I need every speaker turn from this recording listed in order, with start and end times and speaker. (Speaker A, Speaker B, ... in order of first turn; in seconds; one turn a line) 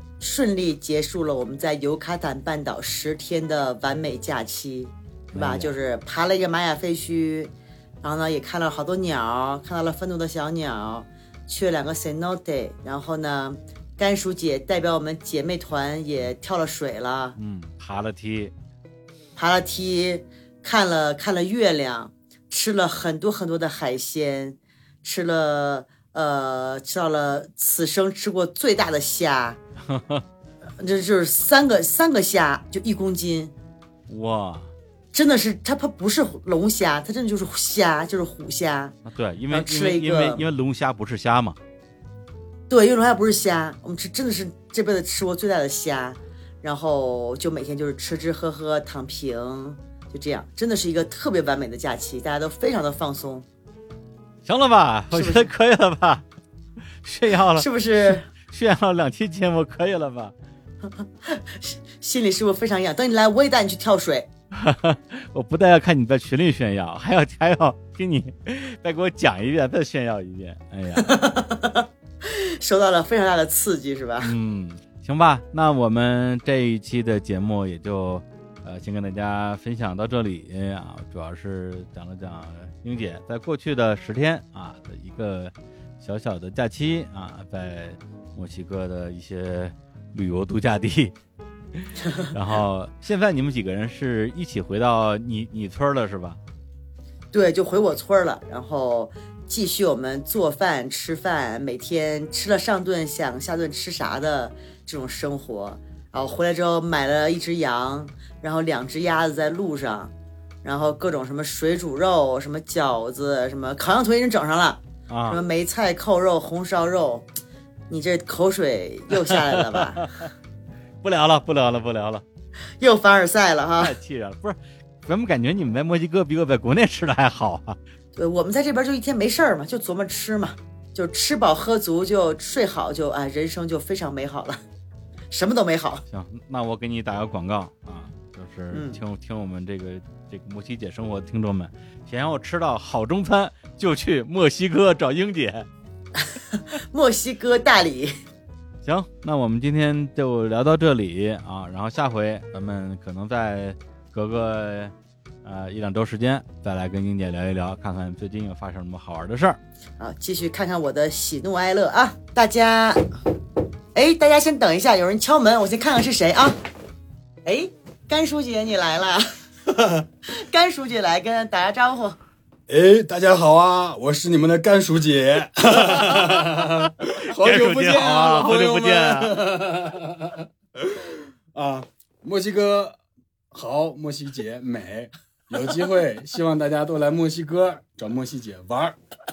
Speaker A: 0.2-17.4
Speaker B: 5.3-5.7
Speaker B: 17.4-18.5
Speaker A: 19.4-29.6
Speaker B: 29.8-30.2
Speaker A: 30.8-33.5
Speaker B: 34.1-34.7
Speaker A: 35.1-39.0
Speaker B: 39.0-41.6
Speaker A: 39.5-40.4
Speaker A: 42.7-53.5
Speaker B: 54.4-56.2
Speaker A: 55.1-55.5
Speaker B: 57.0-60.3
Speaker A: 57.5-58.3
Speaker A: 61.2-64.3
Speaker B: 64.5-71.1
Speaker A: 70.9-74.3
Speaker B: 74.2-91.1
Speaker B: 91.7-96.4
Speaker A: 97.3-110.1
Speaker A: 110.6-117.2
Speaker B: 115.1-115.4
Speaker A: 117.9-120.1
Speaker B: 119.3-120.2
Speaker B: 121.0-122.2
Speaker A: 122.8-124.0
Speaker B: 123.8-127.8
Speaker A: 128.2-134.6
Speaker A: 135.3-136.0
Speaker B: 136.1-145.7
Speaker A: 138.7-139.0
Speaker A: 146.2-148.1
Speaker B: 148.8-159.6
Speaker A: 160.0-163.1
Speaker A: 163.9-166.5
Speaker A: 167.4-169.2
Speaker A: 170.3-172.2
Speaker C: 172.7-183.0
Speaker B: 175.8-179.4
Speaker C: 183.5-188.9